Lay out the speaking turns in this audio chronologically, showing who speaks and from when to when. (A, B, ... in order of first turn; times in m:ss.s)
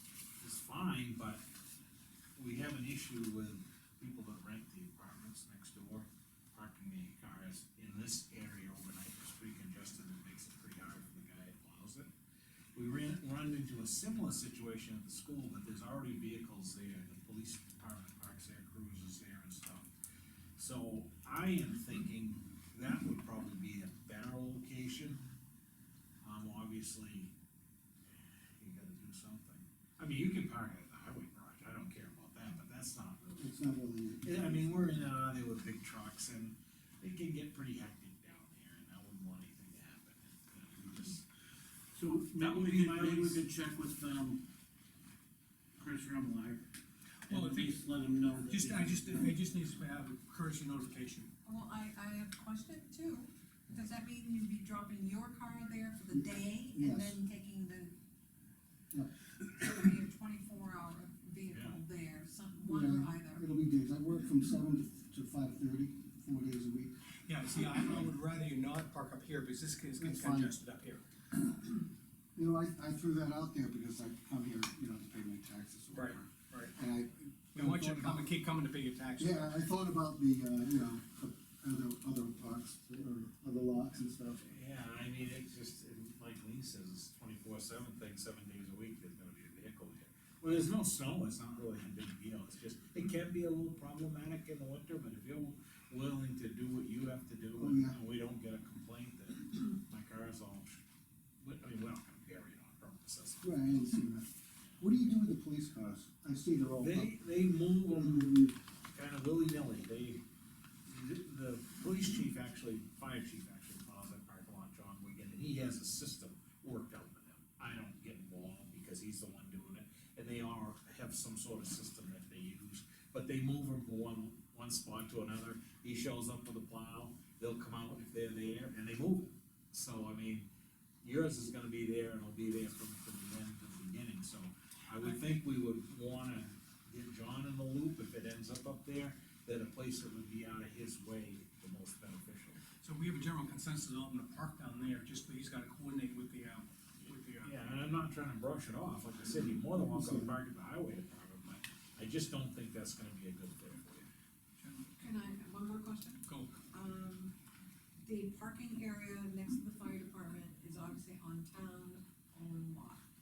0:00.4-0:01.4 A
0:02.4-0:12.1 A
0:12.7-0:19.9 A
0:20.6-0:25.2 A
0:26.2-0:27.3 A
0:28.1-0:33.5 A
0:33.4-0:35.0 B
0:34.2-0:41.2 A
0:42.0-0:44.4 C
0:42.1-0:43.4 A
0:45.8-0:46.7 C
0:47.3-0:47.7 D
0:47.3-0:49.4 C
0:48.5-0:51.3 D
0:51.4-0:57.9 E
0:56.1-0:57.2 B
0:59.5-1:03.4 E
1:01.5-1:01.8 A
1:02.7-1:07.0 B
1:07.2-1:11.0 D
1:07.6-1:08.1 B
1:10.0-1:10.6 B
1:11.3-1:18.3 B
1:15.9-1:16.7 D
1:17.6-1:19.4 D
1:19.2-1:24.4 B
1:24.4-1:40.8 A
1:37.6-1:38.0 B
1:41.4-1:43.8 A
1:43.4-1:47.2 B
1:46.8-1:50.2 A
1:48.0-1:48.5 B
1:50.9-2:10.5 A
2:11.0-2:22.6 A
2:22.8-2:27.6 D
2:27.4-2:34.0 A
2:29.8-2:30.4 B
2:34.6-2:34.9 D
2:35.0-2:36.2 E
2:36.3-2:36.5 D
2:36.7-2:37.3 E
2:38.0-2:43.0 E